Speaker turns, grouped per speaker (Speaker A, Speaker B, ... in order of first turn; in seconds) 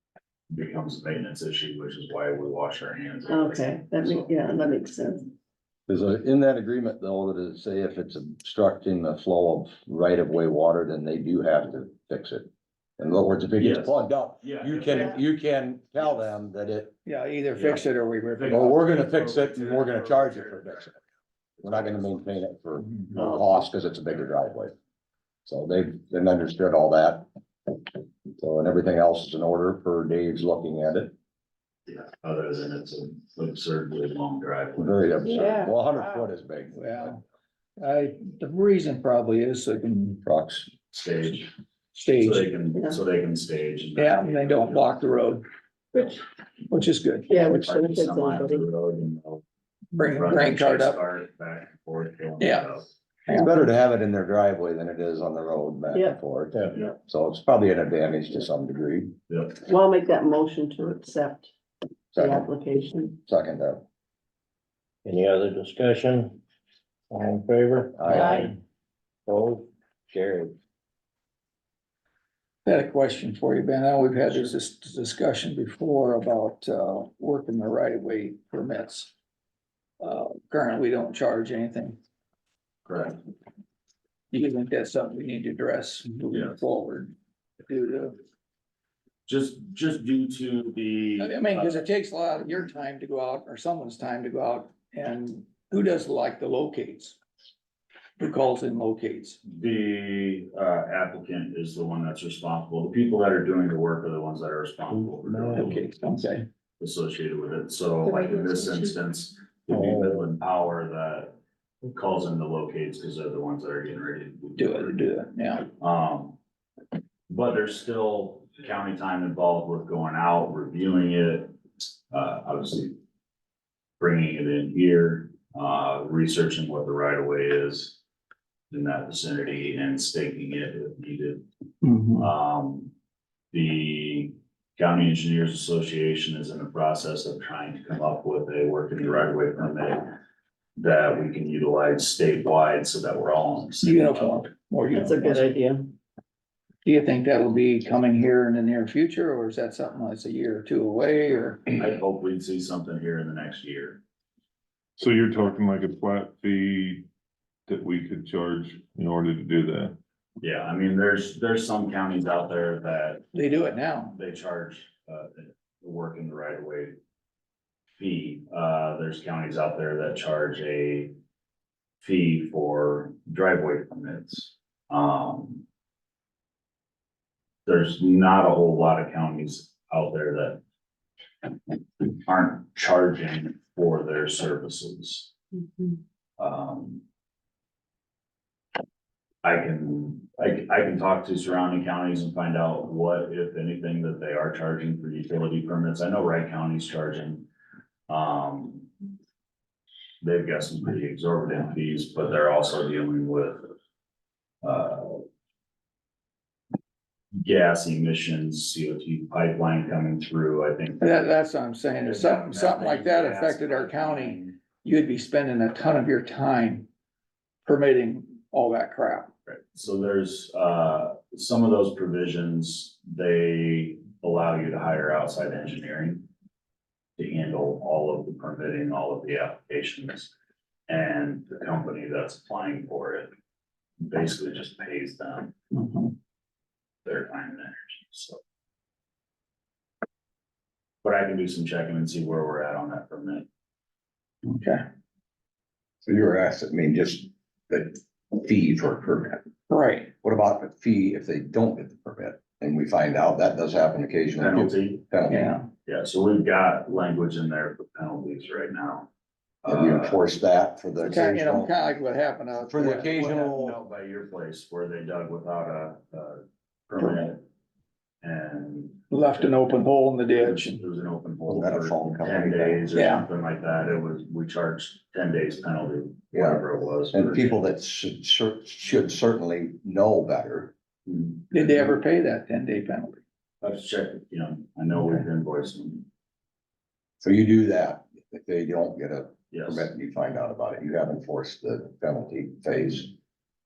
Speaker A: 0.5-4.3, 13.6-15.2, 17.5-20.9, 21.6-22.4, 31.9-35.2, 40.9-41.5, 42.2-45.0, 47.5-49.4, 50.1-52.9, 59.3-59.6, 82.9-83.2, 89.3-91.8, 99.5-105.9, 106.8-115.0, 115.8-116.4, 117.3-121.6, 122.1-123.0, 124.0-128.0, 128.7-131.5, 132.2-132.9, 133.5-140.2, 140.8-144.5, 151.7-154.0, 160.4-163.3, 164.1-166.9, 168.0-171.1, 172.0-175.6, 177.7-180.6, 182.0-185.3, 186.4-187.0, 189.4-197.5, 198.1-198.9, 200.2-203.7, 204.6-205.2, 207.4-211.3, 212.0-214.6, 219.5-226.3, 227.2-230.3, 230.9-233.3, 234.0-235.6, 237.1-238.4, 241.0-243.5, 254.4-255.0, 255.8-259.1, 259.6-260.2, 262.8-267.4, 268.2-269.6, 270.3-277.6, 281.1-281.9, 283.6-286.1, 289.5-289.9
Speaker B: 3.3-5.3, 35.3-35.8, 42.8-43.0, 47.3-48.6, 55.9-56.2, 59.7-61.5, 62.2-63.2, 68.1-68.5, 144.9-145.9
Speaker C: 5.9-17.0, 18.5-21.0, 21.6-24.7, 25.5-27.3, 28.3-31.1, 34.8-37.2, 40.2-40.7, 53.3-59.1, 62.1-62.5, 63.3-63.8, 68.0-68.5, 246.1-249.4, 250.2-255.6, 259.6-261.7, 262.7-263.8, 271.5-272.9, 276.3-280.7, 287.2-293.1
Speaker D: 17.1-18.8, 36.7-37.2, 37.8-40.2, 41.9-42.5, 44.0-45.4, 46.7-47.6, 49.9-51.0, 52.4-52.7, 72.7-79.1, 80.0-82.0, 84.3-87.1, 87.7-88.2, 91.2-97.2, 98.2-99.4, 105.5-106.5, 114.6-115.7, 131.8-132.3, 143.8-145.5, 146.8-151.7, 163.3-164.2, 211.0-216.9, 217.7-219.3, 235.8-236.1, 244.4-244.8, 249.7-250.1, 255.3-255.7, 261.0-263.3, 269.1-270.8, 272.9-273.3, 281.5-283.2, 285.0-285.2
Speaker E: 56.5-56.8, 65.0-66.4, 67.1-68.6, 69.3-70.5, 105.0-105.8, 109.8-110.2
Speaker F: 155.0-157.1, 157.7-160.0